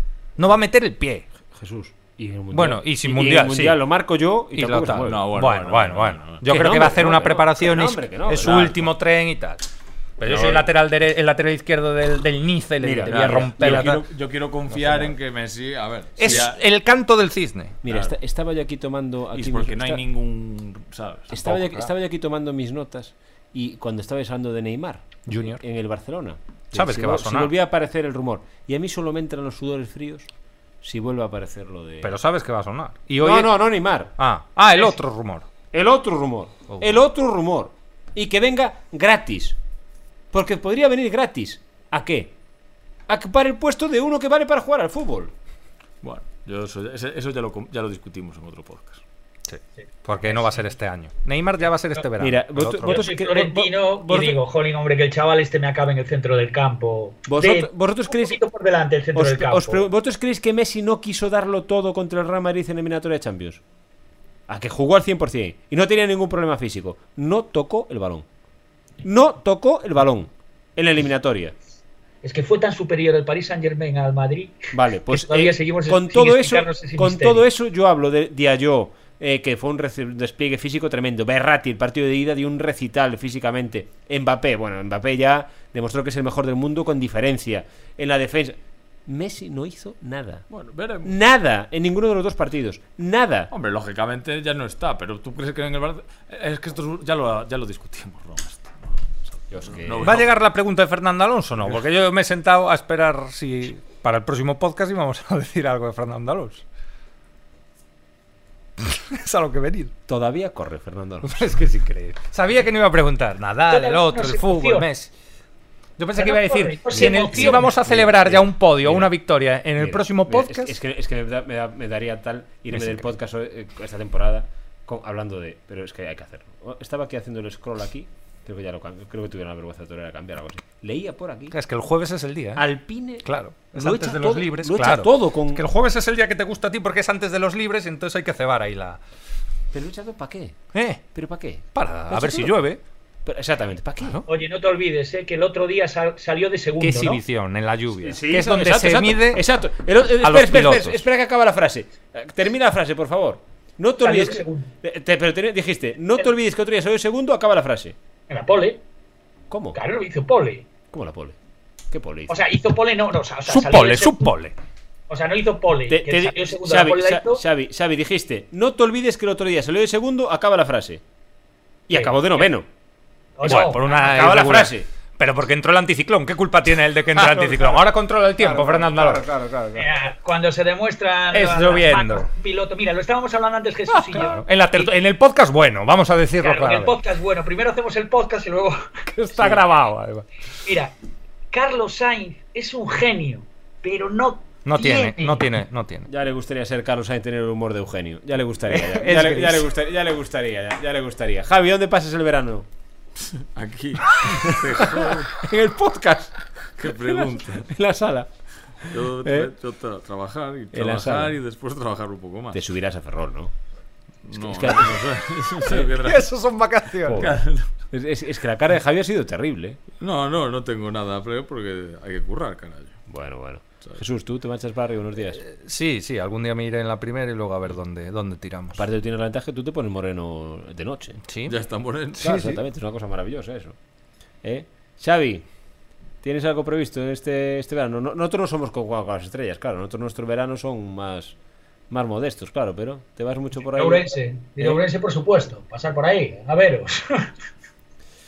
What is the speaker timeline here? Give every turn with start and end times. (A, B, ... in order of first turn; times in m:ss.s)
0:00.4-0:01.3 A
0:01.5-0:05.3 B
0:02.5-0:03.8 A
0:04.5-0:09.6 A
0:05.0-0:06.4 C
0:06.4-0:08.9 B
0:08.4-0:08.8 C
0:10.2-0:14.0 A
0:10.2-0:10.7 C
0:12.8-0:13.9 B
0:13.0-0:16.6 C
0:14.7-0:15.1 B
0:16.2-0:17.8 A
0:17.8-0:20.0 B
0:17.9-0:18.2 C
0:19.3-0:21.5 C
0:21.3-0:30.3 B
0:21.4-0:21.9 A
0:25.3-0:25.6 A
0:26.7-0:27.5 A
0:30.8-0:32.2 B
0:32.0-0:35.5 A
0:33.2-0:34.1 B
0:35.7-0:39.6 B
0:40.3-0:42.3 B
0:43.1-0:45.3 B
0:46.0-0:49.0 C
0:49.5-0:53.1 A
0:52.2-0:54.4 B
0:52.9-0:59.9 D
0:57.3-0:58.4 B
0:59.2-1:03.6 B
1:04.5-1:08.3 B
1:09.0-1:11.6 B
1:12.2-1:17.4 D
1:14.7-1:30.4 B
1:30.5-1:31.2 C
1:31.0-1:33.5 B
1:33.5-1:39.0 C
1:39.5-1:40.2 B
1:39.6-1:40.3 C
1:40.0-1:46.6 A
1:48.8-1:49.9 A
1:50.1-1:51.4 B
1:51.2-1:55.1 A
1:53.7-1:54.9 D
1:56.0-2:00.8 A
1:56.2-1:57.7 D
1:56.9-1:59.1 B
1:59.8-2:11.6 B
2:02.7-2:03.0 A
2:11.5-2:12.7 A
2:12.6-2:15.6 B
2:13.2-2:19.0 A
2:19.7-2:20.6 B
2:20.7-2:21.0 A
2:21.1-2:22.6 B
2:21.7-2:22.8 A
2:23.2-2:24.2 B
2:24.3-2:27.2 D
2:26.8-2:29.4 A
2:28.0-2:38.0 B
2:30.2-2:31.0 A
2:34.0-2:34.7 D
2:38.3-2:38.8 D
2:39.5-2:39.8 B
2:39.7-2:40.7 D
2:40.9-2:41.4 B
2:41.9-2:42.4 B
2:42.3-2:44.3 D
2:43.5-2:44.5 A
2:45.1-2:47.4 D
2:45.9-2:51.0 B
2:51.9-2:52.7 B
2:53.4-2:53.9 D
2:53.4-2:59.8 A
2:53.4-2:54.9 B
2:57.3-2:57.8 B
2:58.4-2:59.5 B
2:59.8-3:04.9 D
3:01.3-3:02.3 A
3:03.9-3:07.0 A
3:06.4-3:09.0 D
3:09.1-3:10.3 A
3:09.4-3:09.6 B
3:10.6-3:10.9 D
3:11.5-3:15.5 D
3:14.6-3:16.1 A
3:16.1-3:22.7 B
3:18.7-3:19.7 A
3:23.2-3:25.3 C
3:24.2-3:26.4 B
3:26.8-3:27.7 C
3:27.1-3:28.3 B
3:28.8-3:29.5 B
3:28.9-3:32.6 C
3:30.7-3:31.4 B
3:32.5-3:33.5 B
3:34.2-3:36.3 C
3:34.3-3:35.9 B
3:35.8-3:37.3 A
3:37.1-3:39.8 B
3:37.2-3:37.7 C
3:40.0-3:43.0 C
3:43.1-3:45.4 B
3:45.4-3:48.8 A
3:48.8-3:51.2 B
3:51.3-3:51.6 A
3:51.4-3:52.4 C
3:52.2-3:52.6 A
3:52.2-3:53.8 B
3:54.4-3:55.5 B
3:56.2-4:01.4 B
4:01.9-4:04.8 B
4:03.7-4:07.3 D